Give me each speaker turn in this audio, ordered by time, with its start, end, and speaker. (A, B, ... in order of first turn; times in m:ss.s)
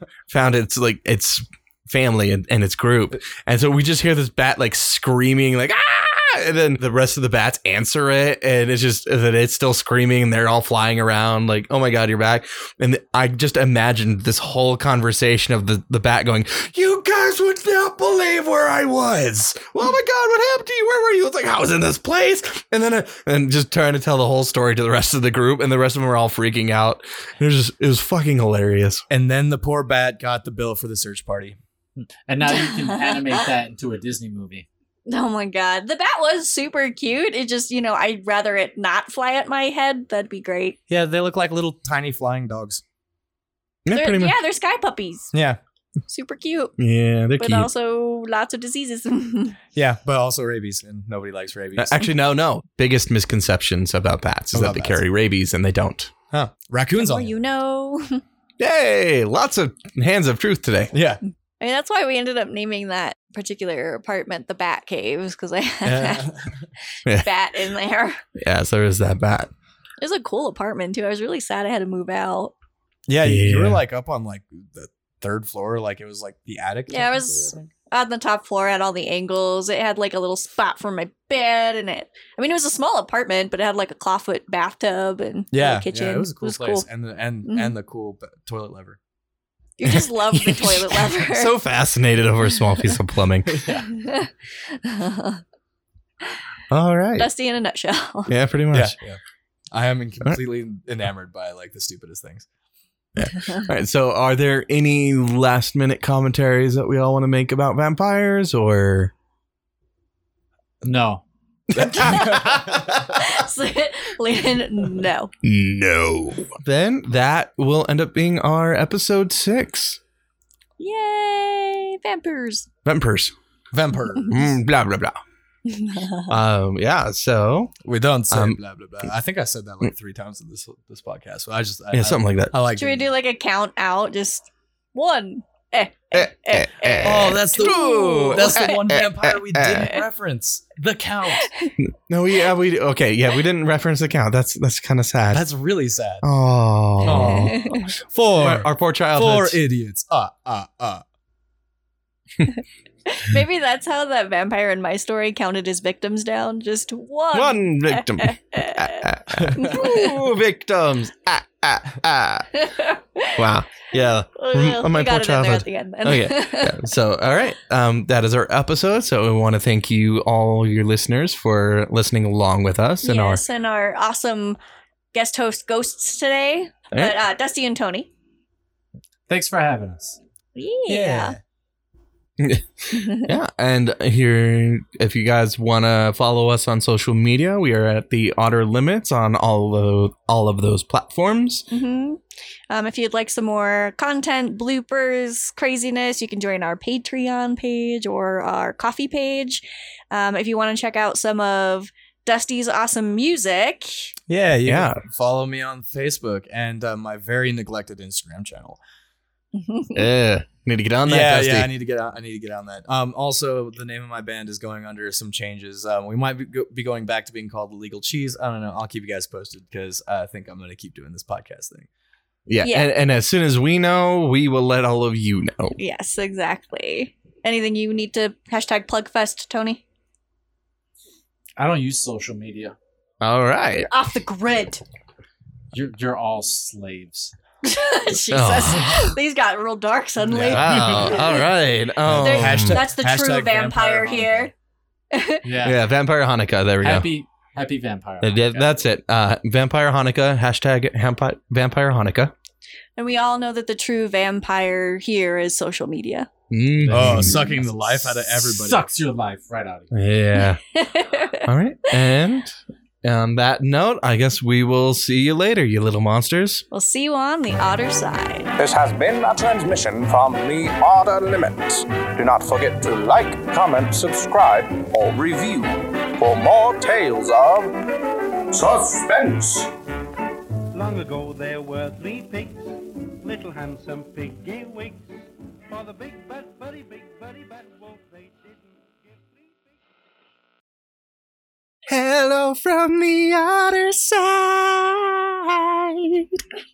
0:00.3-0:29.0 A
0:29.1-0:31.6 B
0:32.0-0:34.6 C
0:32.4-0:33.4 D
0:35.1-0:40.8 D
0:40.9-0:42.8 B
0:43.8-0:44.4 A
0:43.9-0:45.3 D
0:45.3-0:45.6 B
0:46.1-0:46.7 D
0:46.8-0:47.7 A
0:47.4-0:49.6 D
0:49.7-0:52.1 B
0:51.8-0:56.1 A
0:54.5-0:55.0 B
0:56.3-0:57.3 B
0:57.0-0:58.2 D
0:58.6-1:00.9 A
1:00.9-1:01.2 B
1:01.6-1:06.3 D
1:05.8-1:06.7 B
1:07.1-1:08.2 D
1:08.4-1:09.5 A
1:10.0-1:12.5 D
1:13.1-1:17.7 B
1:13.2-1:13.8 A
1:16.9-1:26.8 D
1:25.5-1:29.0 B
1:27.4-1:27.7 D
1:29.8-1:31.5 D
1:29.9-1:33.7 A
1:33.5-1:33.8 B
1:33.9-1:35.4 D
1:36.7-1:37.3 A
1:37.2-1:38.3 D
1:38.3-1:38.9 A
1:38.7-1:39.2 B
1:39.7-1:42.5 B
1:43.2-1:49.1 A
1:50.8-1:51.2 C
1:51.7-1:53.2 A
1:51.8-1:55.3 D
1:52.0-1:52.6 B
1:55.4-2:00.0 A
2:00.8-2:02.7 D
2:02.8-2:03.3 A
2:03.7-2:04.5 B
2:04.3-2:05.2 A
2:05.7-2:06.3 D
2:06.3-2:07.7 A
2:07.8-2:13.1 B
2:08.3-2:08.6 A
2:11.9-2:12.5 A
2:12.7-2:18.9 D
2:16.1-2:19.8 A
2:17.0-2:21.5 B
2:21.4-2:21.7 D
2:21.8-2:25.4 A
2:25.3-2:26.2 B
2:26.2-2:27.7 A
2:27.0-2:31.0 B
2:27.1-2:27.9 D
2:28.4-2:29.6 A
2:33.0-2:40.1 D
2:37.3-2:42.6 A
2:39.4-2:39.7 B
2:42.5-2:46.9 D
2:43.4-2:53.4 A
2:53.0-2:54.6 D
2:55.1-2:58.1 D
2:59.3-3:00.2 C
3:00.6-3:01.4 D
3:00.9-3:01.4 B
3:02.4-3:11.7 A
3:02.9-3:03.3 D
3:11.7-3:24.1 D
3:24.3-3:28.8 B
3:24.7-3:25.0 A
3:29.5-3:30.0 D
3:29.9-3:31.7 A
3:31.0-3:41.9 B
3:42.5-3:45.8 A
3:42.6-3:42.9 D
3:45.8-3:49.8 D
3:51.6-3:52.8 C
3:53.2-3:53.9 A
3:53.8-3:54.8 D
3:55.7-3:57.3 C
3:57.6-4:01.4 D
3:58.3-3:59.1 A
4:00.2-4:01.1 B
4:00.5-4:02.8 A
4:02.0-4:04.5 B
4:02.2-4:04.5 D
4:05.1-4:05.4 D
4:05.4-4:05.8 C
4:05.6-4:07.1 A
4:06.8-4:08.8 C
4:08.2-4:12.3 A
4:13.0-4:16.3 D
4:16.5-4:17.3 A
4:16.8-4:19.9 C
4:16.9-4:18.9 B
4:19.9-4:20.8 A
4:20.7-4:21.5 D
4:21.4-4:26.6 A
4:26.7-4:28.5 D
4:28.6-4:37.7 E
4:38.5-4:39.7 E
4:40.7-4:45.2 F
4:45.7-4:49.7 F
4:51.9-4:56.4 A